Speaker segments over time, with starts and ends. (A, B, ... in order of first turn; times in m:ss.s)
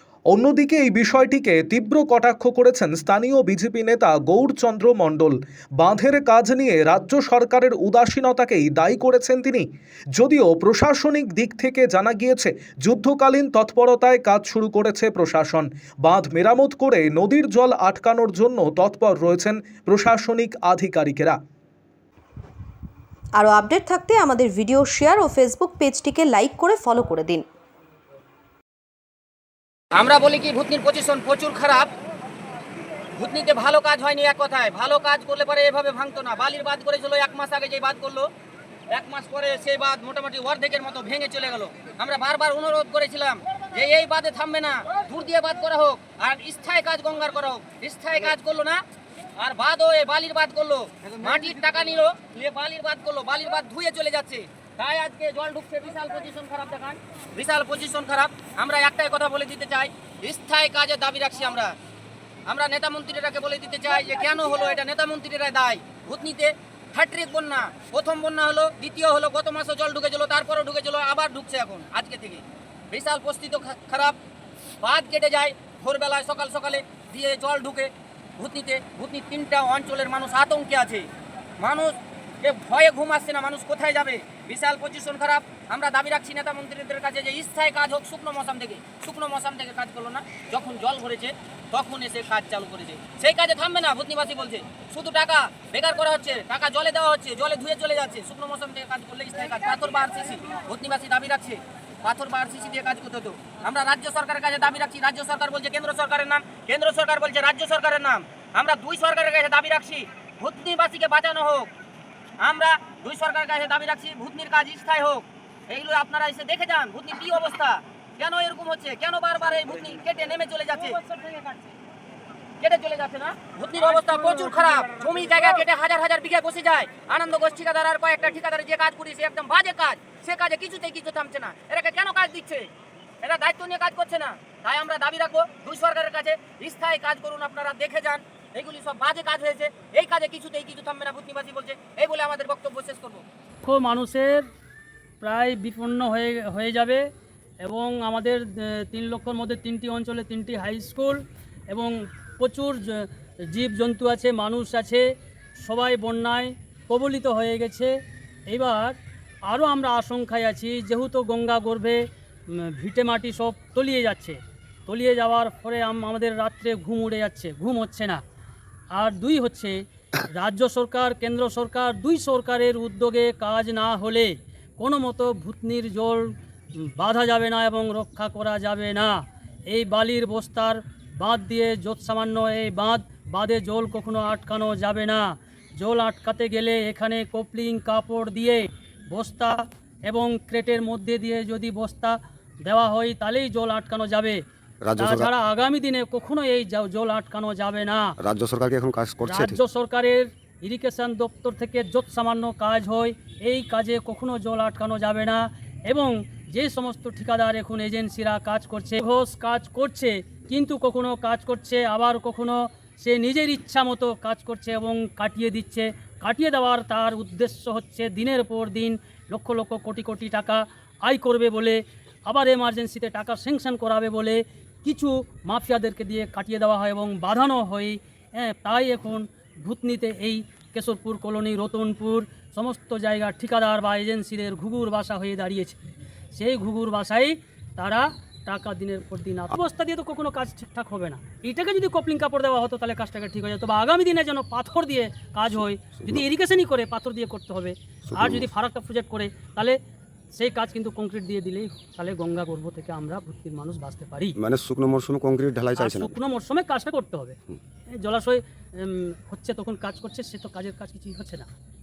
0:00.3-0:21.4 A
0:23.4-0:27.5 B
0:30.0-0:31.9 C
0:33.2-0:38.3 C
0:38.9-0:48.8 C
0:49.4-1:01.7 C
1:02.5-1:14.2 C
1:14.8-1:21.1 C
1:21.6-1:51.7 C
1:52.4-2:01.0 C
2:02.6-2:12.7 C
2:13.2-2:23.2 C
2:23.6-2:24.5 D
2:25.2-2:27.0 D
2:27.6-2:35.0 D
2:35.6-2:37.9 D
2:38.5-2:42.0 D
2:42.5-2:48.2 D
2:48.9-2:49.8 D
2:50.3-2:59.1 D
2:59.7-3:05.2 D
3:05.8-3:14.4 D
3:14.8-3:15.3 E
3:15.0-3:18.1 D
3:18.2-3:19.6 E
3:19.2-3:55.8 D
3:56.3-4:09.8 D
4:06.0-4:06.2 E
4:08.1-4:08.5 E
4:10.4-4:14.4 D
4:14.4-4:16.2 E
4:15.8-4:17.4 D
4:18.0-4:21.5 D